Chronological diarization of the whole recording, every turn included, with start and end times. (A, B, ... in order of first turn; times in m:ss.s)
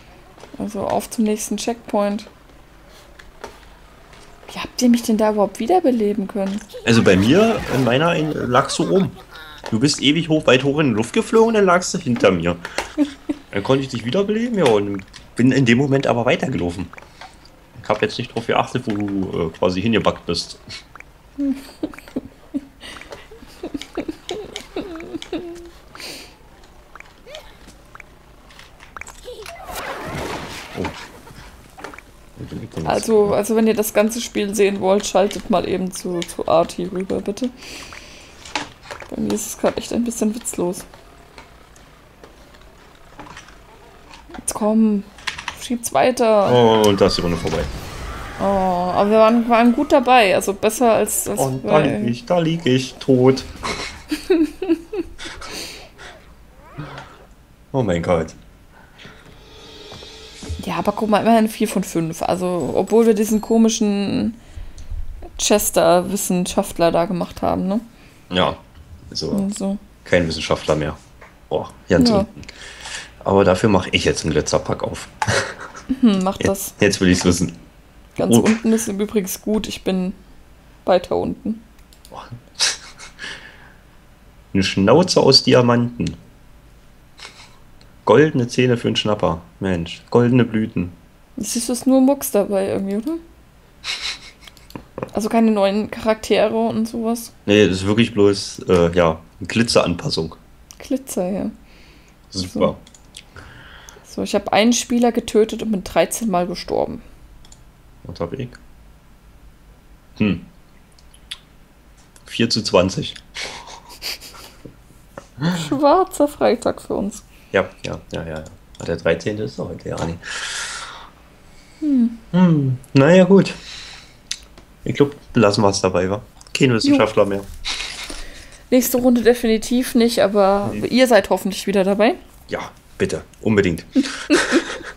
0:00.6-0:02.3 A
0:04.5-0:06.6 A
0:06.8-0:09.2 B
0:09.7-0:12.6 B
0:13.5-0:16.9 B
0:17.8-0:20.6 B
0:32.4-0:33.4 B
0:32.8-0:37.5 A
0:39.1-0:40.9 A
0:44.4-0:46.6 A
0:46.4-0:47.7 B
0:48.4-0:52.2 A
0:51.4-0:53.5 B
0:54.3-0:54.7 A
0:57.7-0:58.4 B
1:00.6-1:04.4 A
1:05.4-1:07.8 A
1:08.3-1:09.4 B
1:09.3-1:09.8 A
1:10.0-1:11.0 B
1:11.5-1:12.4 B
1:12.0-1:12.3 A
1:13.2-1:15.6 B
1:15.9-1:16.7 A
1:16.4-1:17.6 B
1:18.2-1:20.2 A
1:18.2-1:18.6 B
1:20.8-1:21.6 A
1:22.1-1:22.8 B
1:24.5-1:26.2 B
1:28.0-1:30.9 B
1:31.4-1:33.2 A
1:35.1-1:37.3 A
1:37.4-1:40.4 B
1:40.8-1:41.5 A
1:42.3-1:42.8 B
1:42.4-1:42.7 A
1:44.0-1:47.0 A
1:48.0-1:48.6 B
1:50.2-1:50.4 B
1:52.2-1:53.2 B
1:55.5-1:57.2 A
1:57.5-2:00.7 B
2:01.8-2:02.2 A
2:02.3-2:03.6 B
2:04.8-2:07.5 B
2:08.7-2:12.2 A
2:12.5-2:14.8 B
2:14.3-2:14.6 A